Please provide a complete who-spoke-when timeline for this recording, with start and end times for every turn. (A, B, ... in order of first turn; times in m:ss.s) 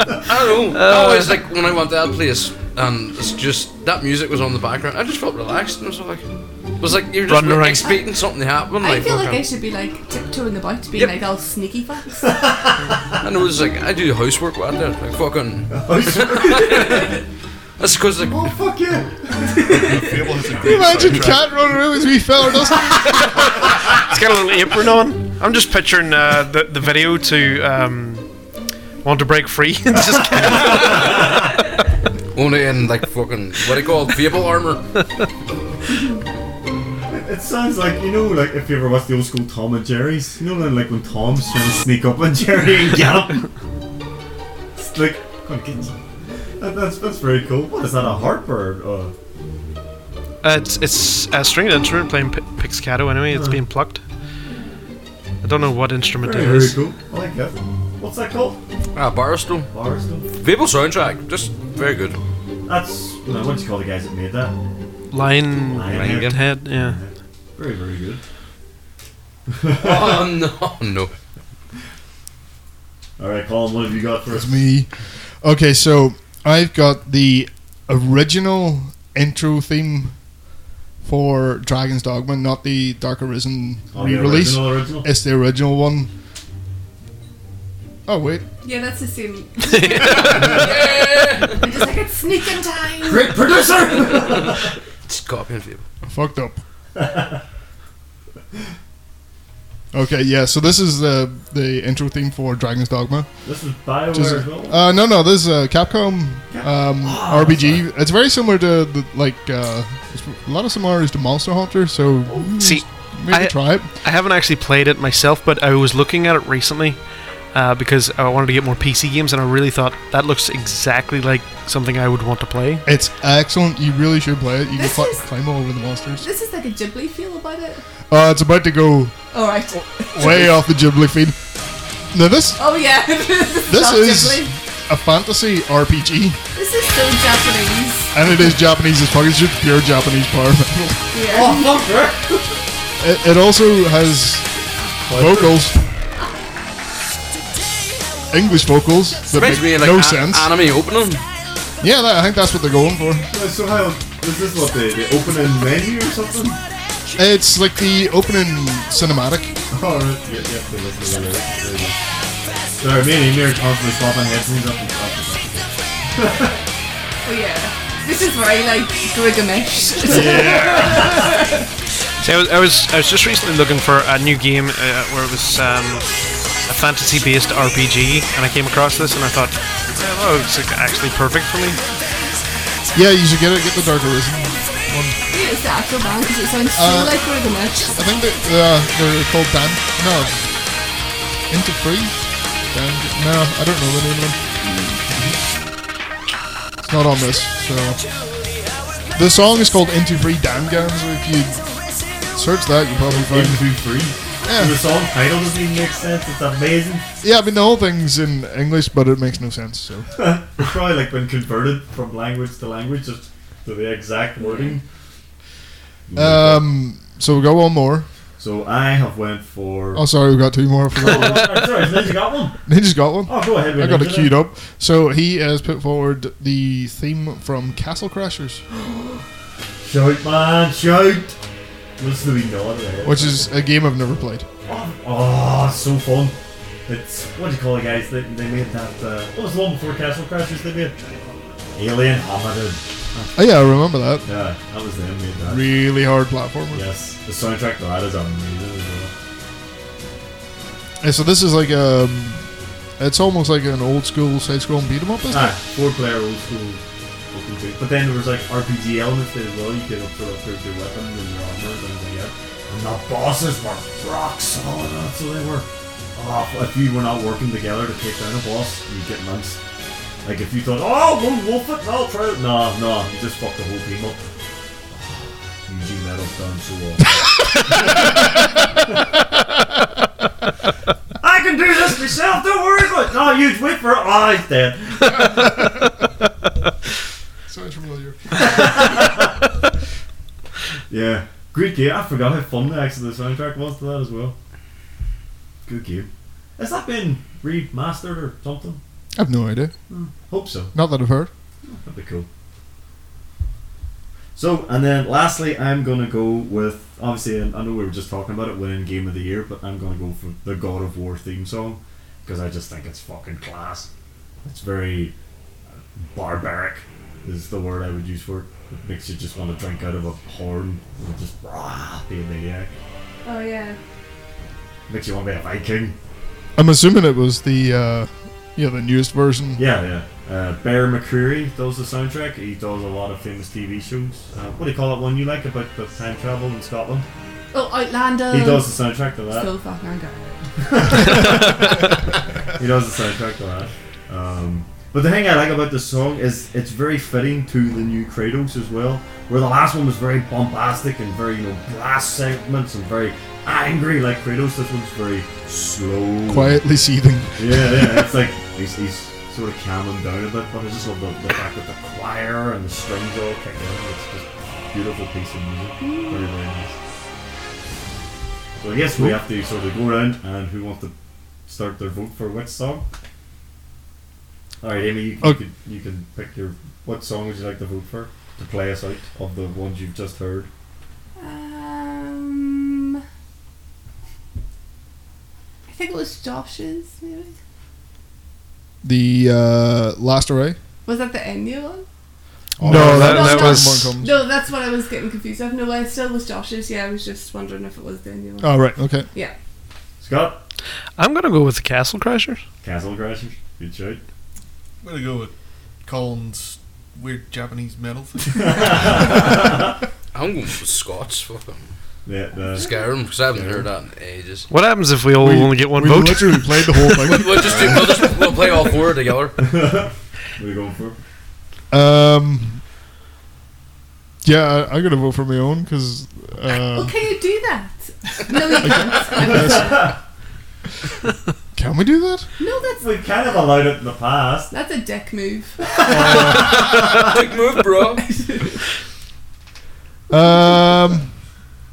0:00.2-0:06.3 A
0:00.7-0:01.4 B
0:06.8-0:09.4 A
0:07.3-0:07.9 B
0:08.8-0:12.2 C
0:12.2-0:13.2 D
0:13.2-0:17.2 A
0:15.7-0:17.2 D
0:17.8-0:18.5 A
0:18.3-0:19.8 D
0:19.7-0:21.8 E
0:20.6-0:23.3 F
0:23.9-0:28.3 B
0:29.0-0:31.2 B
0:30.1-0:31.5 D
0:32.4-0:34.9 A
0:37.1-0:43.5 D
0:44.8-0:46.0 D
0:46.6-0:49.1 D
0:50.4-0:54.0 B
0:53.3-0:53.6 D
0:55.4-0:56.8 B
0:56.2-0:58.6 D
0:59.0-0:59.7 A
0:59.7-1:00.3 D
1:00.4-1:02.2 A
1:02.7-1:04.6 D
1:05.1-1:07.0 B
1:05.7-1:08.2 D
1:05.9-1:06.4 A
1:09.5-1:10.3 D
1:09.8-1:11.1 A
1:13.2-1:14.6 D
1:14.3-1:20.2 F
1:21.0-1:26.1 F
1:23.9-1:25.1 D
1:28.1-1:28.5 F
1:28.6-1:33.4 C
1:29.7-1:30.2 B
1:29.8-1:31.6 A
1:33.0-1:34.7 D
1:34.4-1:35.8 A
1:36.0-1:36.6 F
1:37.0-1:37.4 D
1:39.9-1:43.3 F
1:43.4-1:44.8 D
1:44.1-1:53.9 F
1:46.5-1:47.9 D
1:52.6-1:57.0 B
1:57.5-2:02.9 B
2:02.9-2:06.3 F
2:04.8-2:05.3 C
2:06.2-2:07.8 C
2:08.1-2:09.2 F
2:09.3-2:10.6 C
2:10.1-2:11.4 F
2:12.1-2:12.6 F
2:12.6-2:14.5 C
2:13.7-2:16.4 F
2:16.6-2:18.2 C
2:18.1-2:21.1 F
2:21.1-2:21.8 C
2:21.2-2:22.4 D
2:23.0-2:24.5 F
2:25.0-2:25.7 D
2:25.1-2:25.9 F
2:28.3-2:30.6 F
2:29.3-2:31.2 A
2:31.8-2:33.3 F
2:33.3-2:36.6 D
2:37.2-2:39.6 F
2:39.7-2:42.0 D
2:42.8-2:46.6 D
2:47.2-2:51.6 C
2:50.1-2:51.3 D
2:50.1-2:51.1 F
2:52.2-2:56.1 B
2:56.6-3:01.8 B
3:02.9-3:05.2 F
3:05.3-3:07.9 C
3:06.8-3:10.4 F
3:11.5-3:14.4 F
3:16.8-3:18.0 F
3:19.1-3:21.7 F
3:22.3-3:23.6 F
3:23.1-3:27.0 D
3:24.4-3:24.8 F
3:27.2-3:30.2 F
3:30.1-3:34.8 D
3:34.4-3:34.8 C
3:36.1-3:36.7 D
3:36.2-3:38.1 F
3:38.4-3:40.0 D
3:40.0-3:42.1 F
3:41.0-3:42.6 D
3:42.7-3:48.6 F
3:43.2-3:44.4 D
3:48.8-3:49.2 D
3:49.8-3:51.4 D
3:52.0-3:53.5 D
3:53.0-3:54.5 F
3:54.7-3:56.4 D
3:56.9-4:01.0 D
4:01.7-4:03.4 D
4:03.4-4:04.3 F
4:04.2-4:05.7 D
4:05.4-4:06.9 F
4:06.7-4:09.1 D
4:11.0-4:15.6 F
4:15.3-4:29.6 D
4:30.2-4:34.3 D
4:34.9-4:37.1 D
4:37.7-4:38.0 D
4:41.2-4:45.5 D
4:47.5-4:48.7 F
4:48.4-4:49.3 D
4:50.9-4:54.4 D
4:55.6-4:58.8 D
4:59.2-4:59.7 F
4:59.9-5:00.7 D
5:00.7-5:01.3 F
5:01.6-5:02.3 D
5:04.4-5:13.9 D
5:14.4-5:15.1 D
5:16.0-5:22.7 D
5:23.2-5:23.8 C
5:24.9-5:26.0 D
5:26.6-5:29.6 F
5:29.6-5:37.1 D
5:37.5-5:38.7 C
5:38.3-5:39.5 D
5:39.2-5:40.4 C
5:40.6-5:41.9 D
5:42.5-5:56.6 D
5:56.3-5:58.1 F
5:57.4-6:06.8 D
6:05.8-6:06.3 C
6:08.6-6:10.9 D
6:11.5-6:12.9 D
6:14.6-6:20.5 D
6:21.2-6:23.0 C
6:25.7-6:27.4 C
6:28.8-6:30.6 F
6:30.9-6:31.9 C
6:32.6-6:33.4 D
6:32.6-6:34.2 F
6:32.7-6:34.0 B
6:32.8-6:39.4 C
6:38.4-6:39.1 F
6:40.0-6:40.4 D
6:41.0-6:42.4 B
6:42.6-6:44.0 D
6:44.8-6:48.9 E
6:48.4-6:49.7 D
6:50.1-6:51.7 A
6:52.1-6:52.8 D
6:52.6-6:54.5 A
6:53.3-6:53.7 D
6:54.5-6:57.2 B
6:55.2-6:58.4 F
6:57.1-6:59.4 A
6:59.4-7:01.0 D
7:01.7-7:02.6 F
7:04.2-7:07.0 F
7:06.7-7:09.8 C
7:08.6-7:09.9 F
7:08.7-7:10.0 D
7:11.5-7:12.3 F
7:12.4-7:12.9 C
7:12.8-7:14.5 D
7:14.5-7:15.6 C
7:15.6-7:17.1 D
7:15.9-7:16.6 F
7:15.9-7:18.1 A
7:18.0-7:18.6 C
7:20.1-7:21.1 F